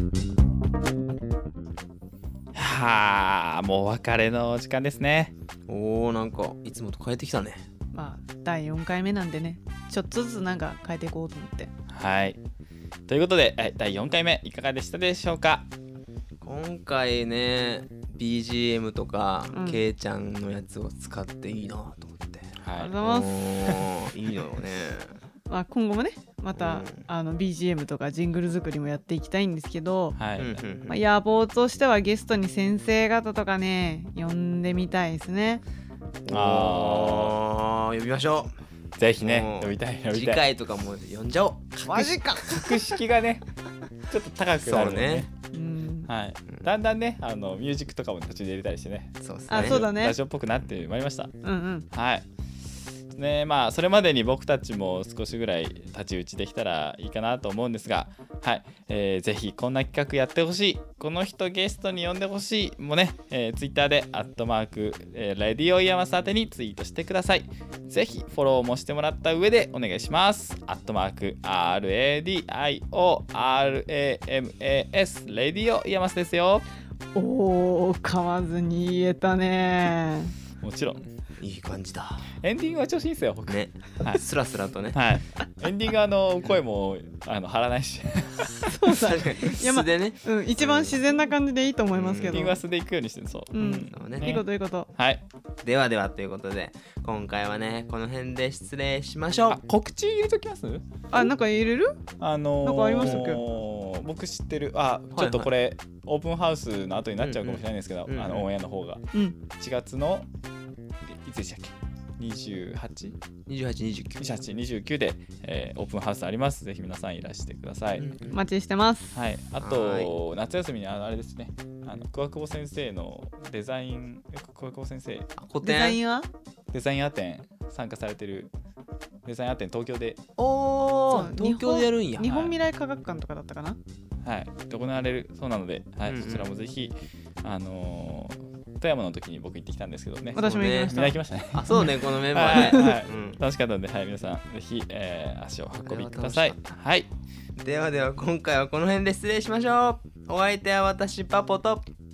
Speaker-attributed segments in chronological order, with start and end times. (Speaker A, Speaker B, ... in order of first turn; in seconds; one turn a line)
Speaker A: 2.5-5.3
Speaker B: 5.7-7.7
Speaker C: 7.9-11.7
Speaker A: 11.9-12.4
Speaker A: 13.1-15.7
Speaker B: 16.4-25.2
Speaker C: 19.5-19.8
Speaker A: 22.6-23.0
Speaker C: 22.8-23.4
Speaker C: 25.5-30.2
Speaker B: 26.6-27.1
Speaker A: 30.2-30.6
Speaker B: 30.4-31.0
Speaker C: 30.9-35.6
Speaker B: 36.3-38.5
Speaker A: 36.3-37.4
Speaker A: 39.0-40.4
Speaker B: 39.2-42.4
Speaker C: 41.8-42.7
Speaker A: 42.4-43.5
Speaker A: 44.1-45.3
Speaker B: 44.6-45.3
Speaker C: 45.5-46.1
Speaker A: 46.1-51.3
Speaker B: 49.2-49.9
Speaker C: 49.5-50.2
Speaker C: 51.4-51.9
Speaker A: 51.9-52.3
Speaker A: 53.1-76.7
Speaker C: 77.2-80.3
Speaker A: 80.6-81.1
Speaker B: 81.4-82.3
Speaker A: 82.4-84.2
Speaker B: 83.5-85.0
Speaker A: 84.9-88.7
Speaker C: 88.7-92.6
Speaker B: 88.9-91.0
Speaker B: 91.9-92.5
Speaker A: 92.3-95.2
Speaker C: 93.5-94.9
Speaker B: 93.9-94.4
Speaker B: 95.6-99.6
Speaker A: 99.5-100.9
Speaker C: 101.1-102.0
Speaker A: 102.2-109.0
Speaker C: 102.6-103.4
Speaker B: 105.1-105.5
Speaker B: 107.2-108.5
Speaker A: 109.6-110.3
Speaker A: 111.0-113.2
Speaker B: 113.5-114.3
Speaker A: 114.2-118.1
Speaker B: 117.9-118.4
Speaker C: 118.3-119.2
Speaker A: 119.1-125.3
Speaker B: 119.6-120.1
Speaker B: 125.4-126.0
Speaker C: 125.6-126.3
Speaker A: 126.7-128.5
Speaker A: 129.2-130.2
Speaker B: 130.4-132.5
Speaker C: 131.1-133.8
Speaker A: 134.2-147.1
Speaker B: 136.1-136.5
Speaker C: 140.3-141.2
Speaker B: 140.4-140.9
Speaker B: 141.5-143.4
Speaker C: 142.4-142.9
Speaker B: 145.8-146.8
Speaker B: 147.6-151.9